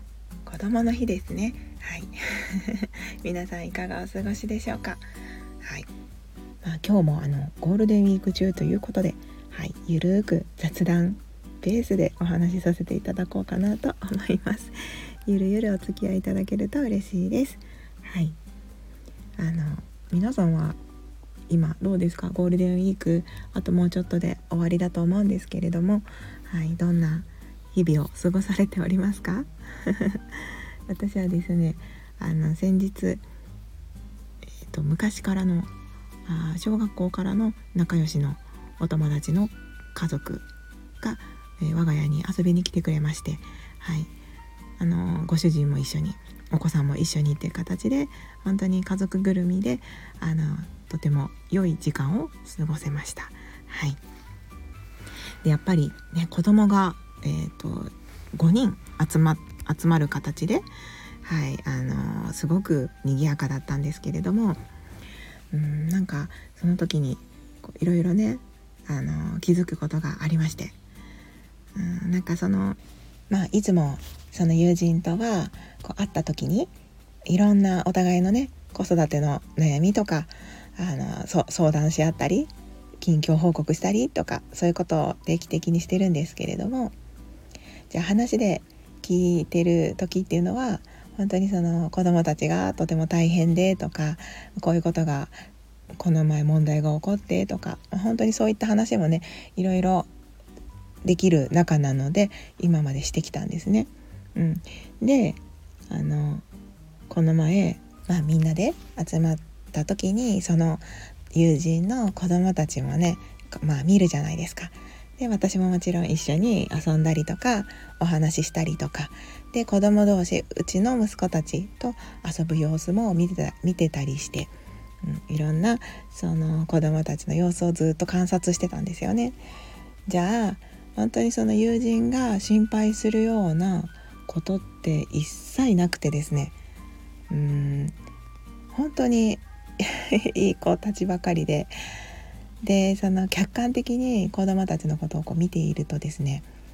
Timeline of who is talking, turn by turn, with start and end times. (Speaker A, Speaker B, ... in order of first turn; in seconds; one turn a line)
Speaker A: 0.5-5.0
Speaker A: 5.6-5.9
Speaker A: 6.6-18.4
Speaker A: 19.4-20.8
Speaker A: 21.5-30.2
Speaker A: 30.9-33.2
Speaker A: 34.7-35.7
Speaker A: 36.3-40.5
Speaker A: 41.0-44.1
Speaker A: 44.8-54.0
Speaker A: 55.4-60.7
Speaker A: 61.2-64.6
Speaker A: 65.5-70.8
Speaker A: 71.8-76.7
Speaker A: 77.3-86.9
Speaker A: 87.9-95.3
Speaker A: 96.0-100.1
Speaker A: 101.0-106.5
Speaker A: 107.1-129.4
Speaker A: 130.1-136.6
Speaker A: 137.3-138.0
Speaker A: 138.7-141.7
Speaker A: 142.6-146.5